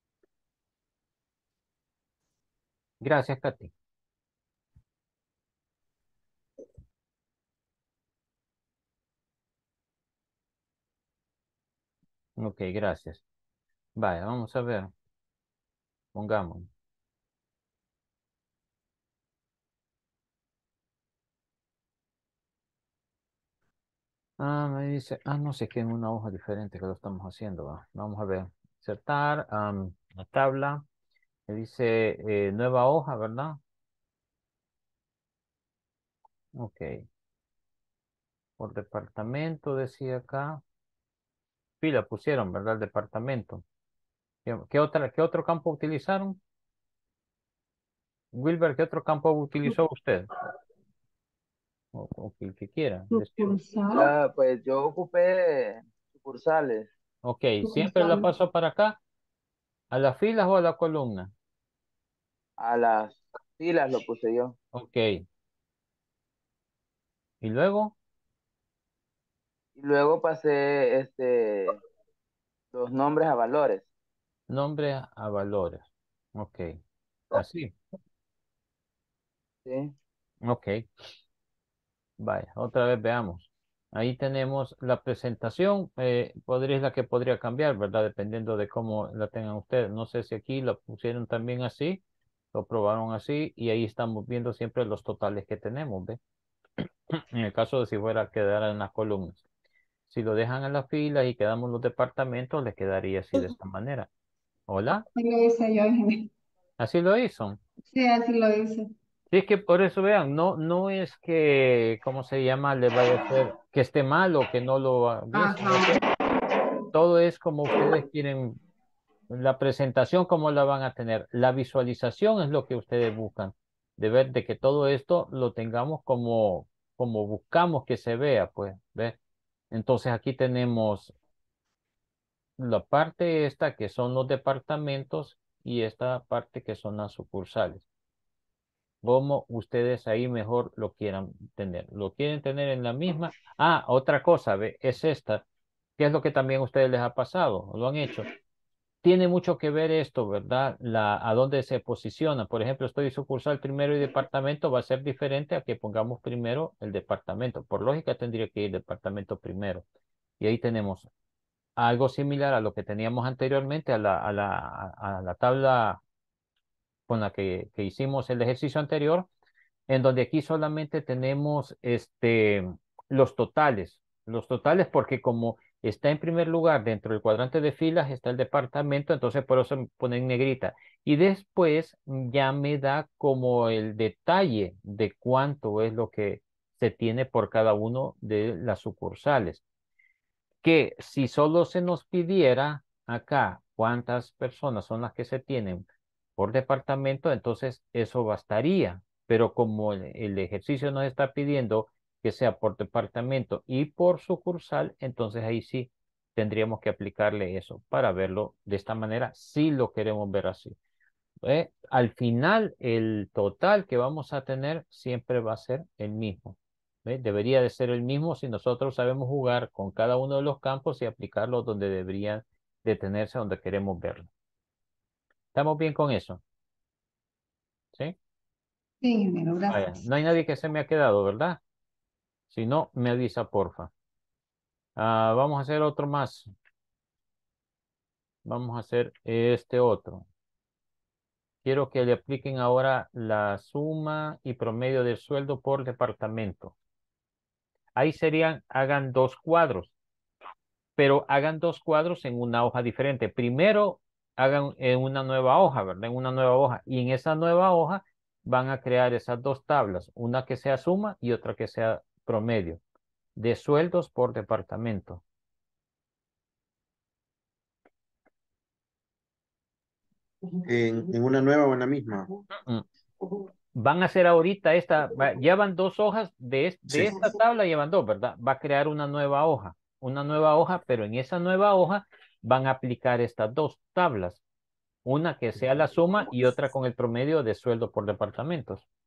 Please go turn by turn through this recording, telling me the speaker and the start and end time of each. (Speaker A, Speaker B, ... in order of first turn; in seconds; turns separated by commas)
Speaker A: 3.0-3.7, Speaker A: 12.4-13.2, Speaker A: 13.9-14.9, Speaker A: 16.1-16.7, Speaker A: 24.4-30.8, Speaker A: 31.5-33.6, Speaker A: 36.6-37.0, Speaker A: 38.6-40.6, Speaker A: 41.8-43.6, Speaker A: 44.5-46.4, Speaker A: 48.3-50.3, Speaker A: 51.9-53.6, Speaker B: 53.1-54.1, Speaker C: 53.9-56.9, Speaker A: 57.2-59.0, Speaker B: 57.6-58.3, Speaker A: 59.9-61.3, Speaker C: 62.6-64.5, Speaker A: 64.7-65.2, Speaker A: 67.4-67.9, Speaker C: 69.8-71.8, Speaker C: 72.7-73.8, Speaker A: 74.5-76.8, Speaker A: 77.3-77.7, Speaker C: 79.7-79.9, Speaker A: 80.4-80.8, Speaker A: 82.2-92.0, Speaker A: 92.5-96.2, Speaker A: 97.1-99.4, Speaker A: 100.1-104.1, Speaker A: 104.7-105.0, Speaker B: 105.1-106.3, Speaker A: 106.8-107.6, Speaker B: 107.8-108.9, Speaker A: 109.3-116.0, Speaker B: 115.3-116.1, Speaker A: 116.9-118.6, Speaker A: 119.3-129.2, Speaker A: 129.7-131.1, Speaker A: 132.6-137.8, Speaker A: 139.0-145.4, Speaker A: 146.0-148.3, Speaker A: 149.0-159.8, Speaker A: 160.4-161.1, Speaker A: 161.8-166.0, Speaker A: 167.1-169.3, Speaker A: 169.9-189.6, Speaker A: 190.6-195.8, Speaker A: 196.4-210.8, Speaker A: 211.4-224.3, Speaker A: 225.5-226.4, Speaker B: 229.0-230.0, Speaker A: 229.7-231.6, Speaker A: 232.5-233.9, Speaker A: 234.9-236.5, Speaker A: 238.4-240.2, Speaker A: 241.6-246.7, Speaker A: 247.9-249.9, Speaker A: 251.0-262.8, Speaker A: 263.4-265.2, Speaker D: 270.6-272.3, Speaker A: 273.7-284.4, Speaker D: 276.9-277.3, Speaker A: 285.0-288.8